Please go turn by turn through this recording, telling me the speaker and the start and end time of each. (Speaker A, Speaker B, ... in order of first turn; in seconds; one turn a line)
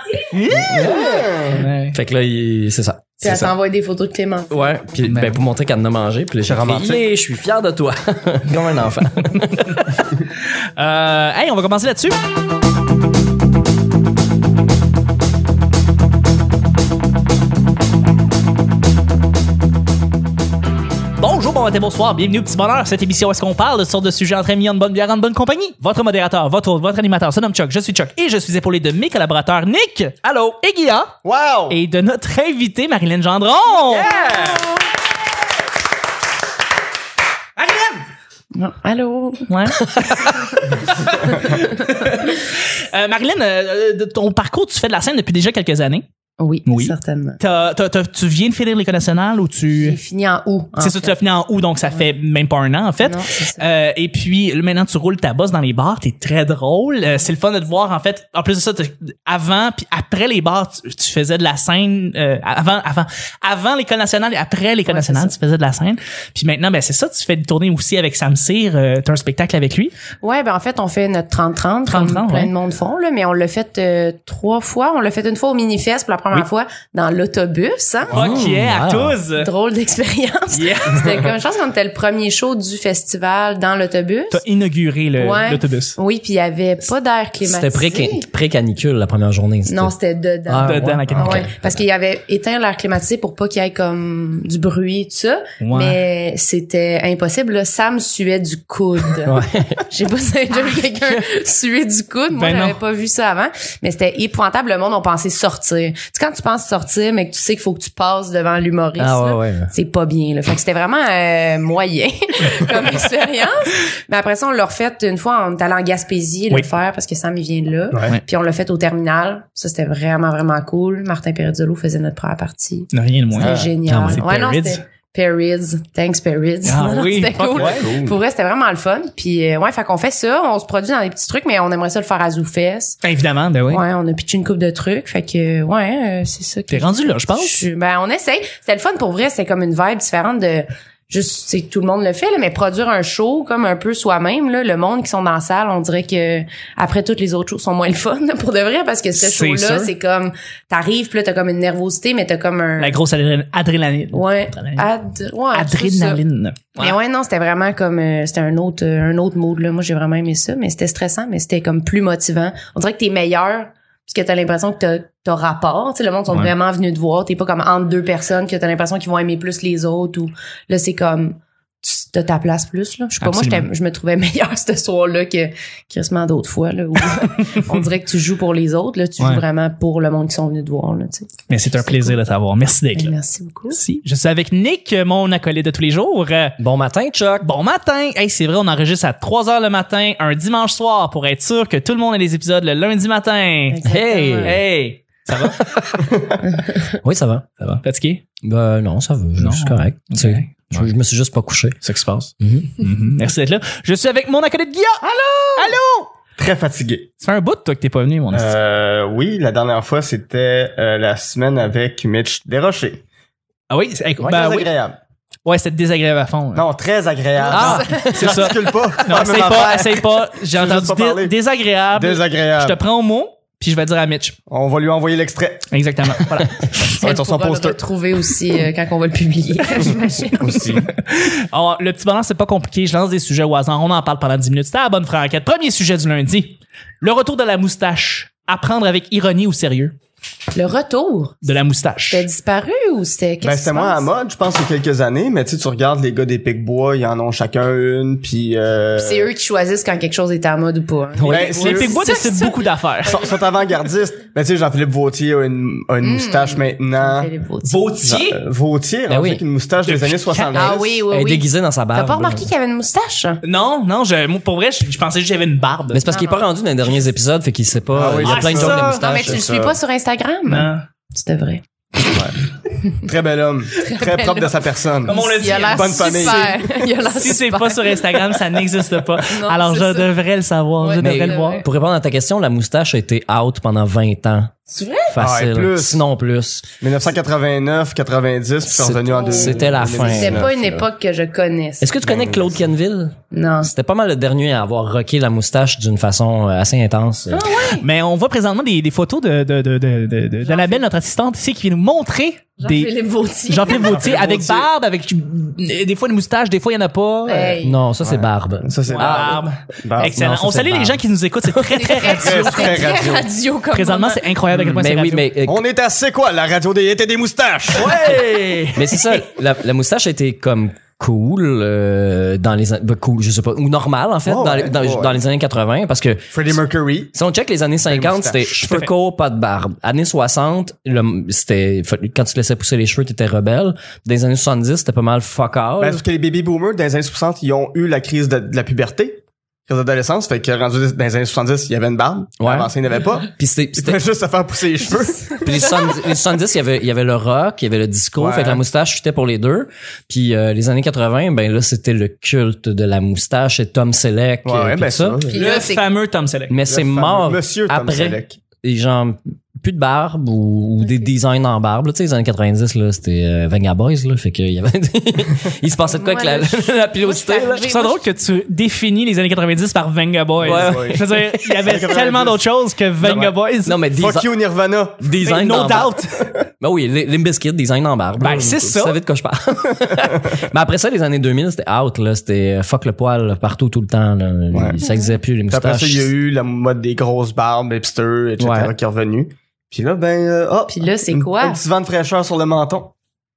Speaker A: 0.3-0.9
Speaker B: 0.5-1.6
Speaker C: 0.5-1.3
Speaker A: 1.5-2.0
Speaker C: 1.9-3.5
Speaker D: 3.2-4.7
Speaker C: 4.5-9.9
Speaker A: 5.0-5.4
Speaker B: 6.5-7.0
Speaker A: 10.8-12.2
Speaker A: 21.2-31.1
Speaker B: 31.2-31.8
Speaker A: 31.7-34.7
Speaker B: 33.9-34.7
Speaker A: 37.6-38.0
Speaker D: 38.5-39.5
Speaker A: 39.5-40.6
Speaker C: 40.0-40.4
Speaker D: 41.2-41.7
Speaker A: 41.4-46.0
Speaker D: 46.4-47.4
Speaker A: 46.7-50.0
Speaker D: 49.8-51.2
Speaker A: 50.8-69.9
Speaker D: 53.0-53.7
Speaker D: 64.9-65.4
Speaker D: 70.2-78.3
Speaker A: 71.9-72.5
Speaker A: 78.1-79.5
Speaker C: 78.1-79.2
Speaker D: 79.4-84.4
Speaker A: 80.5-81.1
Speaker A: 84.3-86.0
Speaker D: 85.2-88.3
Speaker C: 87.4-89.9
Speaker D: 89.7-133.0
Speaker C: 90.5-91.5
Speaker A: 90.6-91.5
Speaker A: 95.6-96.0
Speaker C: 99.3-99.8
Speaker A: 102.3-102.8
Speaker C: 109.0-109.7
Speaker A: 122.9-124.8
Speaker B: 123.4-123.8
Speaker C: 123.9-124.2
Speaker A: 126.7-127.9
Speaker B: 127.5-128.2
Speaker A: 133.0-133.8
Speaker D: 133.7-153.0
Speaker A: 136.7-137.6
Speaker A: 149.2-149.9
Speaker A: 152.8-154.9
Speaker D: 154.1-156.2
Speaker A: 155.5-157.0
Speaker D: 156.8-182.2
Speaker A: 173.2-173.7
Speaker A: 181.5-183.2
Speaker D: 183.0-183.8
Speaker A: 183.7-186.6
Speaker C: 186.6-187.5
Speaker A: 187.4-193.8
Speaker D: 193.7-194.6
Speaker C: 193.8-194.6
Speaker A: 194.4-195.6
Speaker C: 195.6-195.9
Speaker B: 196.0-196.4
Speaker D: 196.5-196.9
Speaker C: 197.0-197.6
Speaker A: 197.6-198.2
Speaker C: 198.4-201.8
Speaker A: 199.4-200.9
Speaker A: 201.8-205.0
Speaker C: 202.4-202.8
Speaker B: 205.0-205.8
Speaker A: 205.6-206.1
Speaker B: 206.4-207.1
Speaker A: 207.2-208.5
Speaker B: 208.3-213.0
Speaker A: 213.7-214.7
Speaker B: 214.2-215.0
Speaker A: 215.4-216.6
Speaker B: 216.6-221.3
Speaker C: 217.5-218.2
Speaker D: 217.5-218.9
Speaker A: 217.5-224.4
Speaker B: 221.9-222.8
Speaker B: 224.5-225.7
Speaker A: 225.7-227.0
Speaker B: 227.0-227.8
Speaker D: 227.0-230.6
Speaker B: 230.4-230.9
Speaker A: 231.1-239.9
Speaker D: 240.5-241.4
Speaker A: 241.4-242.3
Speaker D: 242.1-244.1
Speaker B: 243.4-249.3
Speaker D: 249.0-252.7
Speaker C: 251.2-251.7
Speaker B: 251.3-252.0
Speaker A: 251.5-253.2
Speaker B: 253.0-257.3
Speaker D: 256.0-258.0
Speaker A: 257.6-258.4
Speaker B: 258.0-261.1
Speaker C: 259.1-259.4
Speaker A: 259.9-260.7
Speaker D: 260.5-263.4
Speaker C: 261.1-262.5
Speaker A: 263.4-266.1
Speaker C: 265.9-269.5
Speaker D: 266.1-266.5
Speaker B: 267.9-269.8
Speaker A: 268.2-269.1
Speaker D: 269.0-271.6
Speaker A: 270.5-270.9
Speaker B: 273.0-276.6
Speaker D: 273.8-278.4
Speaker A: 275.1-281.6
Speaker D: 279.3-280.1
Speaker D: 280.8-281.7
Speaker C: 281.0-284.5
Speaker D: 284.7-285.2
Speaker C: 285.1-286.7
Speaker B: 285.2-286.0
Speaker B: 286.8-290.9
Speaker C: 288.7-290.5
Speaker D: 289.1-291.9
Speaker C: 291.8-297.4
Speaker B: 292.0-292.6
Speaker D: 293.3-293.7
Speaker D: 297.3-297.9
Speaker A: 297.8-302.9
Speaker D: 300.4-300.9
Speaker D: 302.6-304.1
Speaker A: 303.4-307.6
Speaker B: 303.6-304.7
Speaker D: 307.3-307.8
Speaker C: 307.6-309.4
Speaker B: 308.0-310.2
Speaker A: 308.9-312.9
Speaker C: 310.0-311.0
Speaker D: 311.7-314.3
Speaker B: 312.2-313.3
Speaker A: 313.7-315.3
Speaker C: 314.5-315.6
Speaker B: 315.4-318.1
Speaker A: 317.7-319.3
Speaker C: 318.8-326.6
Speaker B: 324.3-325.2
Speaker B: 326.3-327.1
Speaker C: 327.1-336.0
Speaker B: 327.9-328.5
Speaker A: 328.6-328.9
Speaker B: 335.8-345.7
Speaker C: 342.4-342.7
Speaker C: 343.4-344.0
Speaker D: 345.3-345.9
Speaker C: 345.4-355.2
Speaker B: 348.2-348.6
Speaker B: 354.4-355.4
Speaker D: 355.3-355.9
Speaker A: 355.3-356.6
Speaker C: 356.5-367.7
Speaker B: 356.7-358.4
Speaker D: 360.8-361.1
Speaker D: 365.9-368.1
Speaker A: 367.6-373.8
Speaker B: 370.4-372.4
Speaker C: 370.4-371.3
Speaker B: 373.0-373.3
Speaker C: 373.7-374.3
Speaker B: 373.9-375.1
Speaker C: 375.0-376.0
Speaker A: 375.2-376.3
Speaker C: 376.6-386.1
Speaker A: 378.2-379.0
Speaker B: 384.5-384.8
Speaker D: 384.8-385.1
Speaker B: 385.5-392.9
Speaker C: 388.4-388.7
Speaker D: 390.7-391.6